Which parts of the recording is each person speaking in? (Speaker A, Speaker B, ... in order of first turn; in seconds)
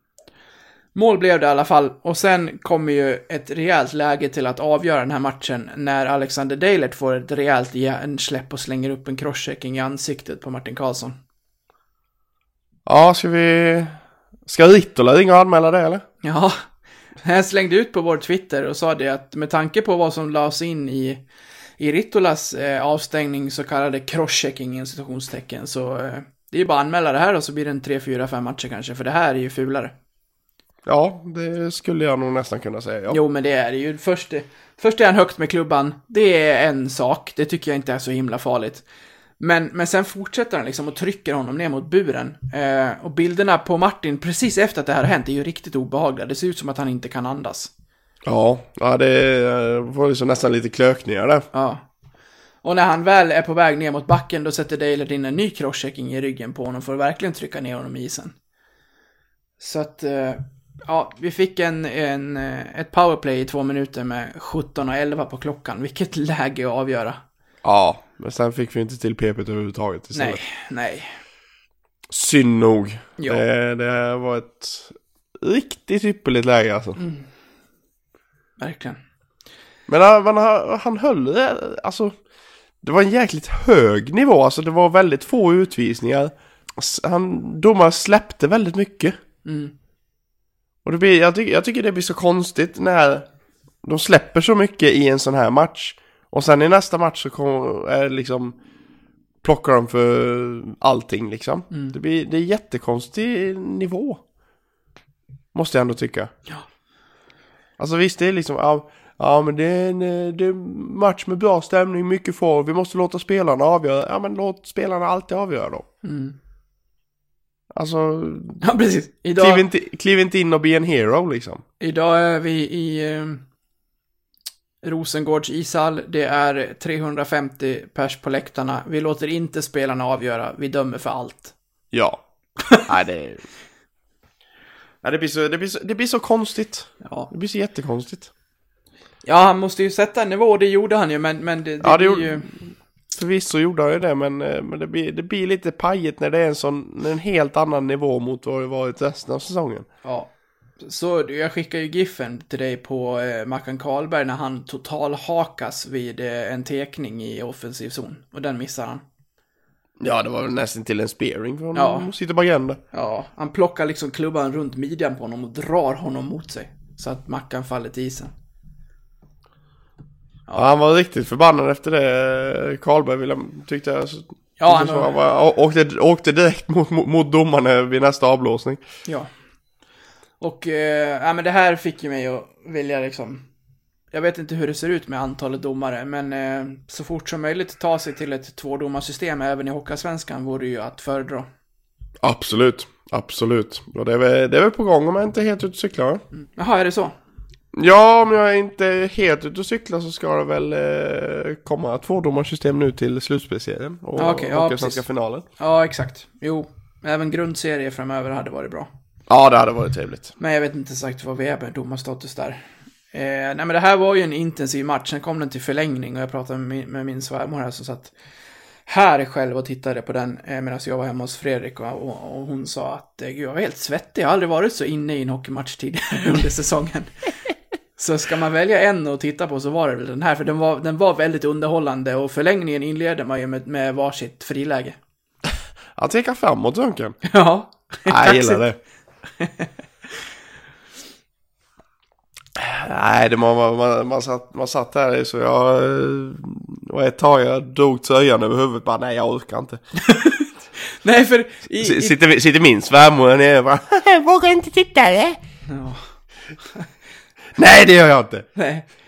Speaker A: 0.9-11.2, 16.2-16.6, 17.2-21.2, 21.8-29.9, 33.1-38.8, 39.4-47.7, 51.5-51.8, 52.6-58.4, 59.6-67.2, 70.1-71.2, 77.0-77.3, 78.6-79.0, 89.5-89.7, 116.0-116.4, 118.6-119.6, 121.8-123.4, 124.8-131.5, 137.0-137.3, 139.2-142.5, 150.1-159.0, 161.7-162.1, 162.9-168.3, 174.6-175.2, 180.4-183.4, 184.1-191.5, 196.6-197.2, 204.2-205.0, 205.6-208.9, 210.4-218.1, 218.9-227.1, 228.0-235.0, 237.3-238.6, 239.4-239.7, 250.0-252.2, 255.7-256.0, 258.6-258.9
Speaker B: 12.9-16.0, 30.9-33.2, 48.2-51.5, 67.6-70.4, 72.1-77.0, 79.9-82.2, 82.8-89.2, 90.8-93.3, 93.8-98.6, 99.4-104.2, 105.5-106.3, 107.8-115.9, 117.7-118.6, 119.4-121.6, 131.9-132.2, 132.8-133.4, 135.0-138.3, 141.8-149.9, 160.0-162.8, 170.6-178.8, 192.2-196.2, 197.7-205.4, 209.3-210.3, 236.0-237.2, 238.1-238.8, 242.6-249.8, 251.8-255.4, 257.6-258.5